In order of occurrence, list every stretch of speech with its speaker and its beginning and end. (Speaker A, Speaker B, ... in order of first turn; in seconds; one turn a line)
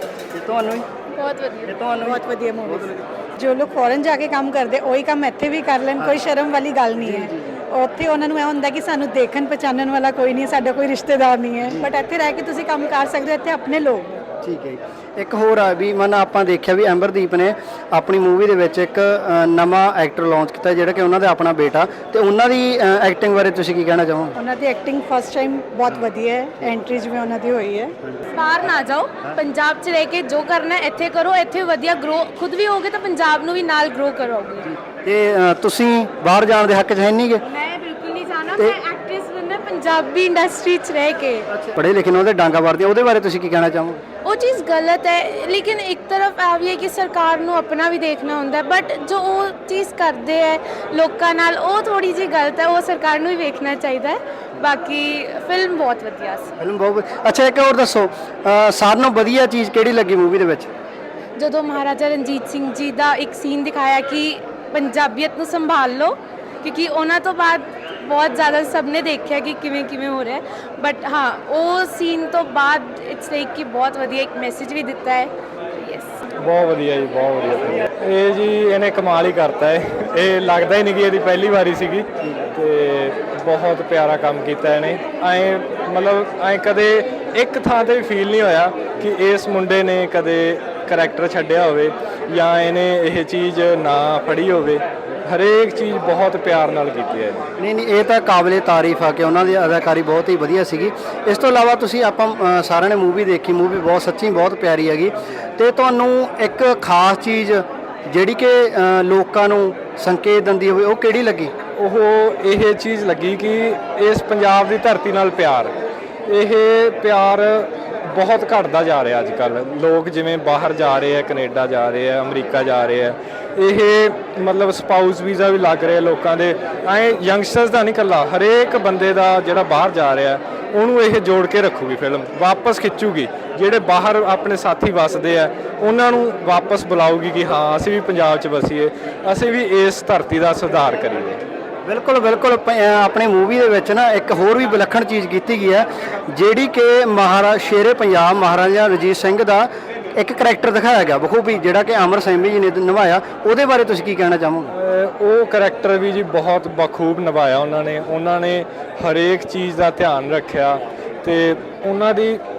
Speaker A: 0.3-0.9
Speaker B: 1.2-1.6
Speaker A: 1.7-3.0
Speaker C: 2.0-14.2
Speaker A: 6.0-6.3
Speaker A: 7.0-7.6
Speaker A: 11.6-11.9
Speaker A: 14.4-24.4
Speaker C: 24.4-27.9
Speaker A: 28.0-28.3
Speaker B: 29.5-34.4
Speaker A: 34.6-37.4
Speaker B: 37.6-41.4
Speaker A: 38.5-38.8
Speaker A: 41.5-44.0
Speaker B: 44.3-44.7
Speaker B: 45.3-46.0
Speaker B: 48.6-49.8
Speaker B: 52.3-53.7
Speaker B: 54.8-55.3
Speaker A: 56.6-60.7
Speaker B: 61.4-63.3
Speaker B: 63.9-64.2
Speaker B: 64.9-65.3
Speaker B: 68.2-70.0
Speaker B: 70.8-75.2
Speaker D: 76.4-97.5
Speaker A: 82.2-82.5
Speaker A: 97.6-111.5
Speaker D: 111.8-115.7
Speaker D: 116.3-141.4
Speaker A: 141.8-154.7
Speaker D: 154.7-162.4